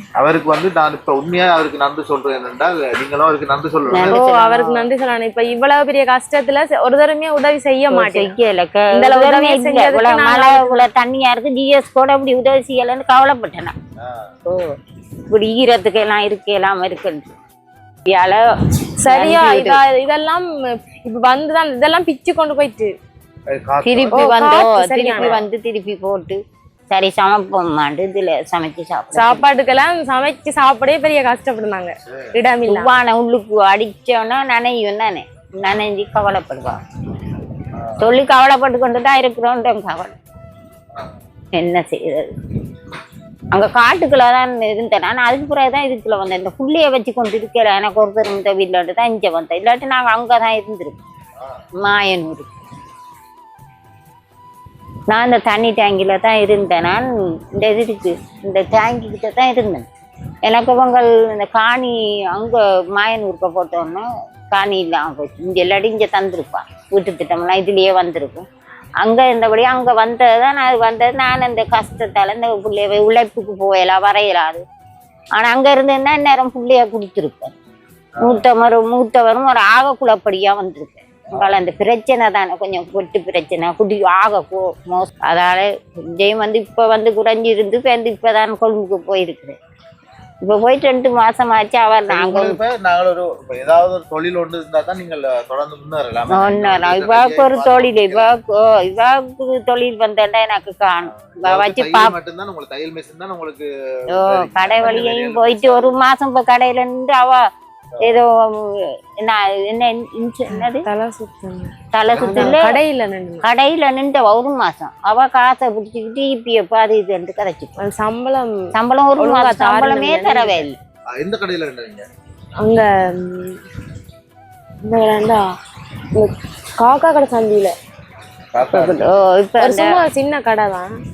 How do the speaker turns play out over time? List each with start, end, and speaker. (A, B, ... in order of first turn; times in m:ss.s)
0:00.2-0:04.2 A
0:03.9-0:04.9 B
0:04.1-0:08.4 C
0:07.9-0:13.8 B
0:08.9-0:10.9 C
0:14.0-0:14.3 A
0:14.5-0:14.7 B
0:15.3-0:17.3 B
0:18.1-0:19.8 B
0:19.0-0:22.9 C
0:23.5-0:24.6 A
0:23.8-0:29.5 B
0:24.1-0:25.4 C
0:25.2-0:25.4 A
0:29.2-0:33.0 C
0:32.1-0:32.4 A
0:32.7-0:36.8 B
0:37.7-0:38.2 A
0:38.0-0:40.2 B
0:41.6-0:42.3 B
0:43.5-0:51.0 B
0:51.4-0:51.6 A
0:51.8-0:52.5 B
0:55.1-0:59.9 B
1:00.4-1:08.5 B
1:09.0-1:14.6 B
1:15.4-1:17.6 B
1:18.2-1:18.5 A
1:18.2-1:29.6 B
1:30.4-1:32.6 B
1:32.1-1:38.4 A
1:36.3-1:42.2 B
1:41.0-1:46.0 A
1:44.1-1:47.5 B
1:44.8-1:45.1 C
1:48.0-1:48.2 A
1:48.0-1:50.9 B
1:50.5-1:53.5 C
1:51.9-1:52.8 B
1:52.1-1:52.6 A
1:53.4-1:57.8 B
1:57.8-1:58.6 C
1:58.7-2:00.8 B
1:59.2-2:00.7 C
2:01.2-2:02.1 A
2:02.6-2:03.6 C
2:04.8-2:05.5 C
2:06.1-2:07.8 C
2:08.5-2:09.1 A
2:08.7-2:10.0 B
2:09.6-2:10.9 C